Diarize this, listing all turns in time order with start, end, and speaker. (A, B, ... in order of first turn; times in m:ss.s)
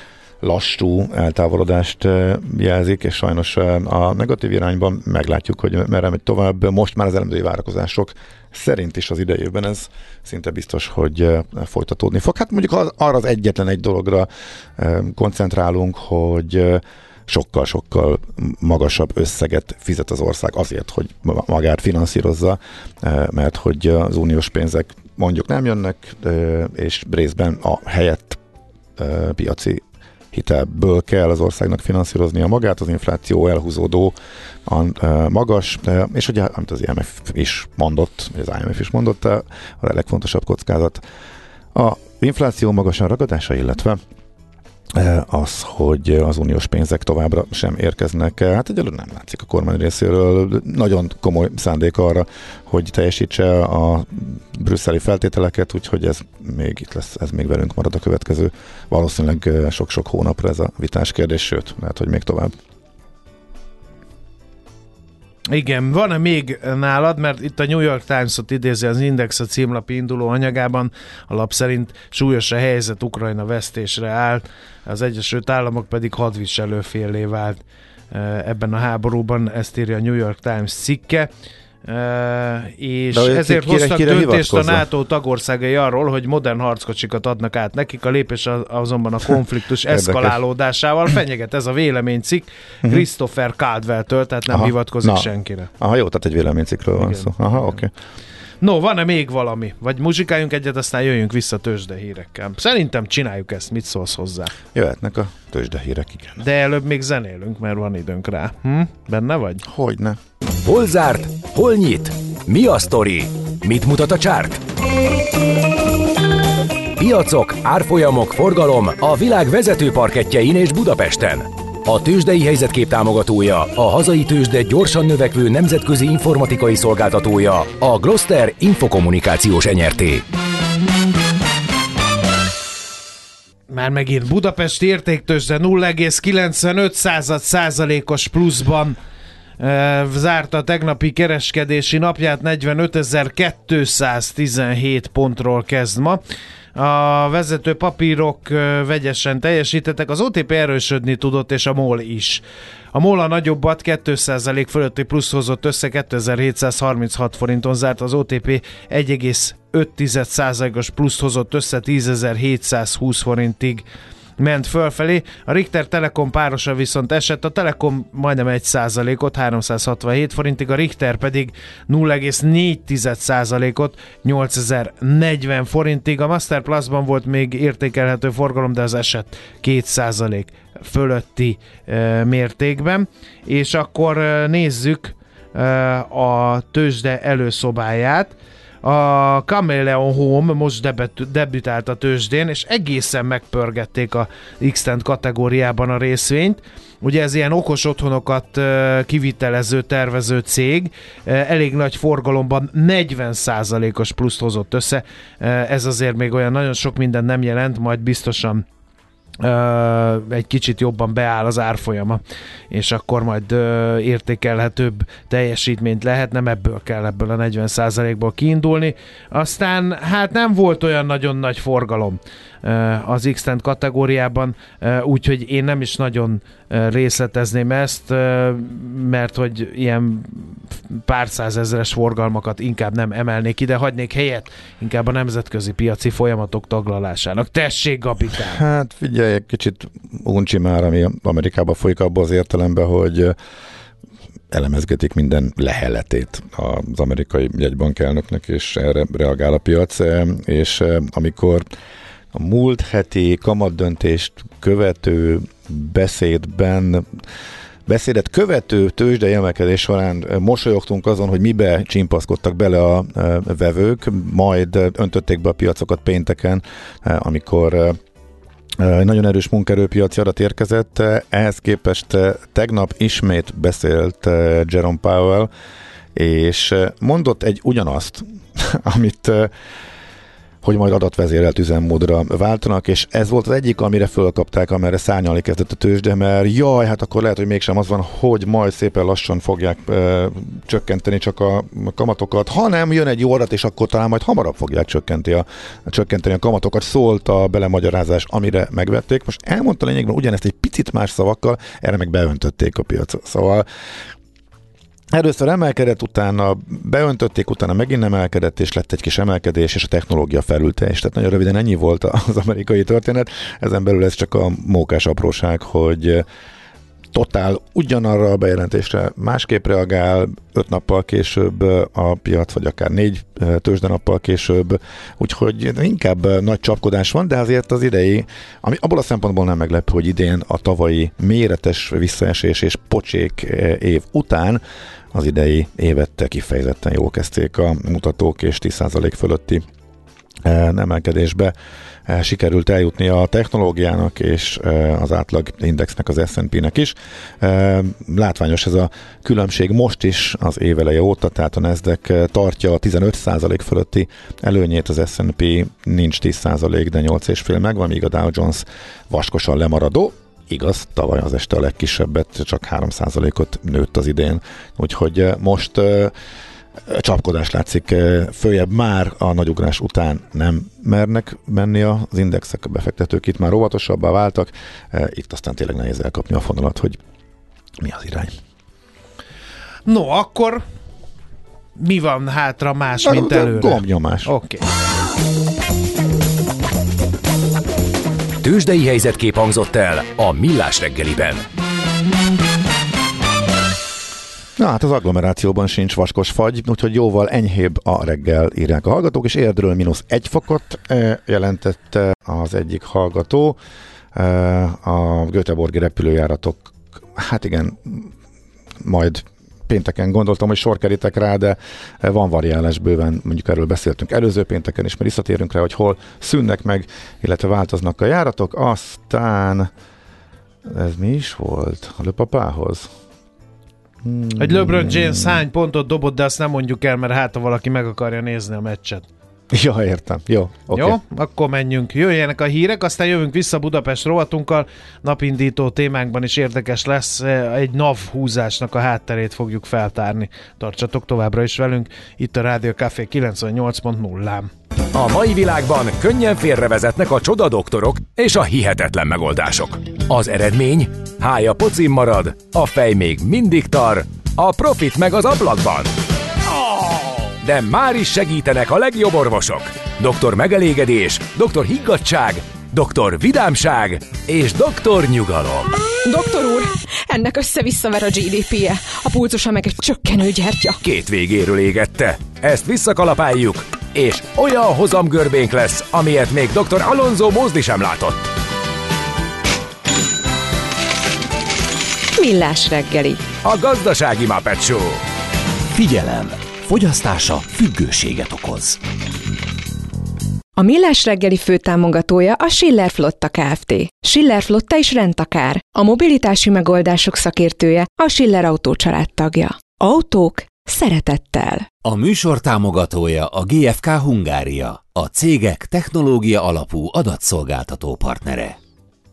0:00.4-0:28.4 A
0:29.0-0:34.1 A
0:34.6-0:41.0 A
0:41.7-0:44.0 A
0:44.9-1:02.5 A
1:05.5-1:21.3 B
1:21.8-1:35.7 B
1:23.1-1:24.8 A
1:29.9-1:30.4 A
1:34.5-1:37.9 A
1:37.0-1:37.3 B
1:38.6-1:44.5 B
1:44.7-1:46.4 A
1:46.4-1:49.6 B
1:49.6-1:50.2 A
1:50.6-1:54.6 C
1:57.0-2:10.2 C
2:13.7-2:19.0 B
2:19.6-2:26.2 B
2:26.8-2:32.4 B
2:32.9-2:43.8 B
2:44.4-3:28.6 B
3:29.4-3:58.6 B
3:58.4-4:03.3 A
4:04.5-4:11.7 A
4:12.3-4:17.2 A
4:17.8-4:28.0 A
4:28.8-4:35.5 A
4:36.1-4:39.5 A
4:40.6-5:03.6 A
5:05.1-5:16.2 A
5:17.1-5:34.6 A
5:35.1-5:39.6 A
5:40.4-5:41.5 A
5:42.0-6:06.1 A
6:06.8-6:17.0 A
6:17.8-6:18.3 A
6:19.8-6:20.6 B
6:21.8-6:24.6 B
6:23.0-6:24.3 A
6:28.4-6:31.4 C
6:34.6-6:43.6 A
6:44.1-6:48.1 A
6:48.8-6:59.7 A
7:00.6-7:02.9 A
7:04.0-7:05.4 A
7:04.4-7:09.0 B
7:09.5-7:11.0 A
7:10.7-7:24.5 B
7:24.9-7:35.9 C
7:37.4-7:45.7 C
7:46.0-7:50.8 D
7:50.8-7:58.3 C
8:02.2-8:03.2 D
8:03.4-8:05.0 C
8:05.7-8:08.8 E
8:10.6-8:21.7 D
8:21.8-8:28.5 E